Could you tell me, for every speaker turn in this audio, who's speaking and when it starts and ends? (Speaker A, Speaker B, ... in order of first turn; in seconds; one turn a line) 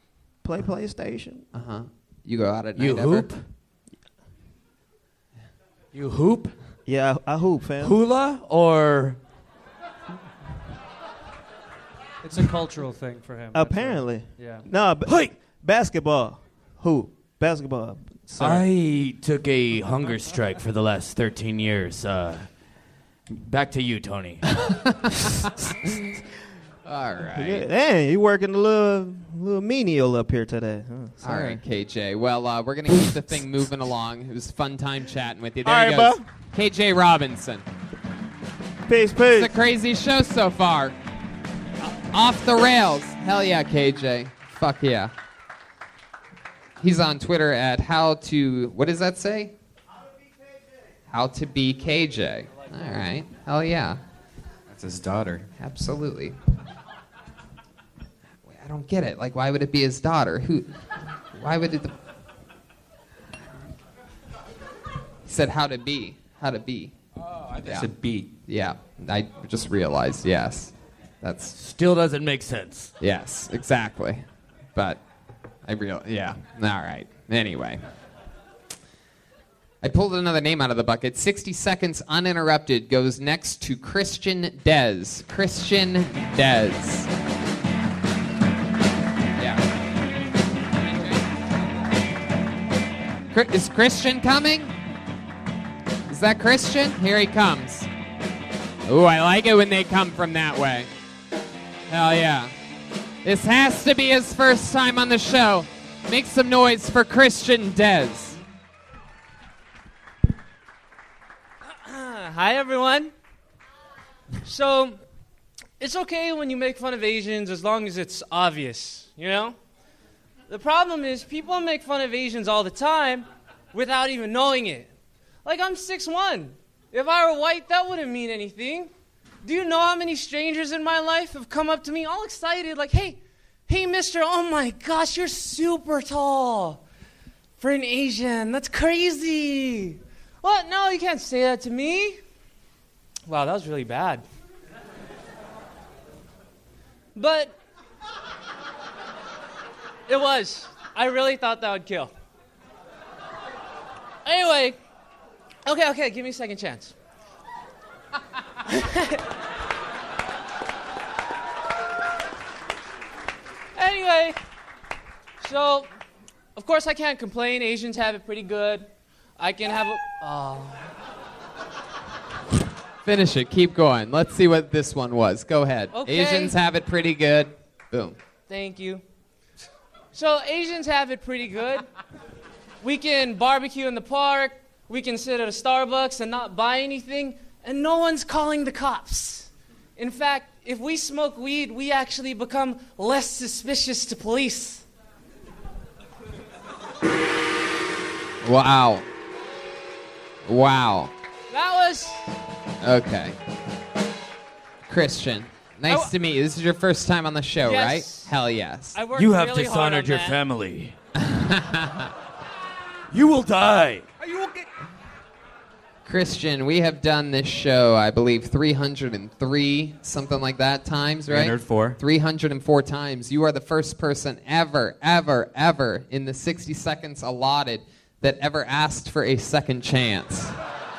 Speaker A: 0.4-1.4
Speaker B: 1.5-3.3
Speaker C: 2.8-3.4
Speaker C: 5.9-6.5
Speaker A: 6.9-8.0
Speaker C: 7.8-9.2
Speaker D: 12.2-14.7
Speaker A: 13.5-18.7
Speaker C: 15.1-15.3
Speaker C: 18.4-22.5
Speaker C: 23.3-24.4
Speaker B: 24.5-26.0
Speaker B: 26.9-27.7
Speaker A: 27.4-31.6
Speaker B: 31.2-37.6
Speaker A: 35.6-36.2
Speaker A: 38.9-39.5
Speaker B: 39.2-41.0
Speaker B: 42.1-45.1
Speaker B: 46.8-49.5
Speaker B: 51.1-54.0
Speaker E: 54.7-55.5
Speaker B: 55.6-56.4
Speaker B: 58.5-60.7
Speaker B: 61.3-61.9
Speaker B: 65.3-66.9
Speaker E: 67.4-68.3
Speaker B: 67.6-67.9
Speaker B: 68.5-71.6
Speaker C: 71.6-72.9
Speaker B: 73.0-74.2
Speaker B: 74.8-75.0
Speaker B: 75.7-77.8
Speaker B: 79.8-87.1
Speaker B: 89.4-89.6
Speaker B: 93.3-94.8
Speaker B: 96.1-97.9
Speaker B: 98.9-100.9
Speaker B: 101.9-102.5
Speaker B: 103.2-108.4
Speaker F: 111.7-113.1
Speaker F: 114.4-115.0
Speaker F: 115.8-119.6
Speaker F: 120.5-124.9
Speaker F: 125.5-128.9
Speaker F: 129.4-136.8
Speaker F: 137.6-142.2
Speaker F: 143.3-144.2
Speaker F: 147.2-147.6
Speaker F: 150.1-152.1
Speaker F: 154.2-154.8
Speaker F: 155.7-156.9
Speaker F: 158.7-159.2
Speaker F: 163.8-164.4
Speaker F: 165.4-165.9
Speaker F: 166.6-170.9
Speaker B: 173.1-178.2
Speaker F: 175.9-176.6
Speaker F: 178.5-179.0
Speaker F: 180.1-181.9
Speaker F: 182.8-194.8
Speaker B: 198.4-199.1
Speaker B: 200.5-201.1
Speaker F: 201.5-202.3
Speaker B: 202.8-203.4
Speaker B: 204.9-209.0
Speaker F: 205.9-206.1
Speaker F: 207.6-208.3
Speaker F: 208.9-210.4
Speaker C: 209.1-210.9
Speaker B: 211.2-212.1
Speaker C: 213.1-214.1
Speaker B: 216.1-230.6
Speaker E: 221.3-222.0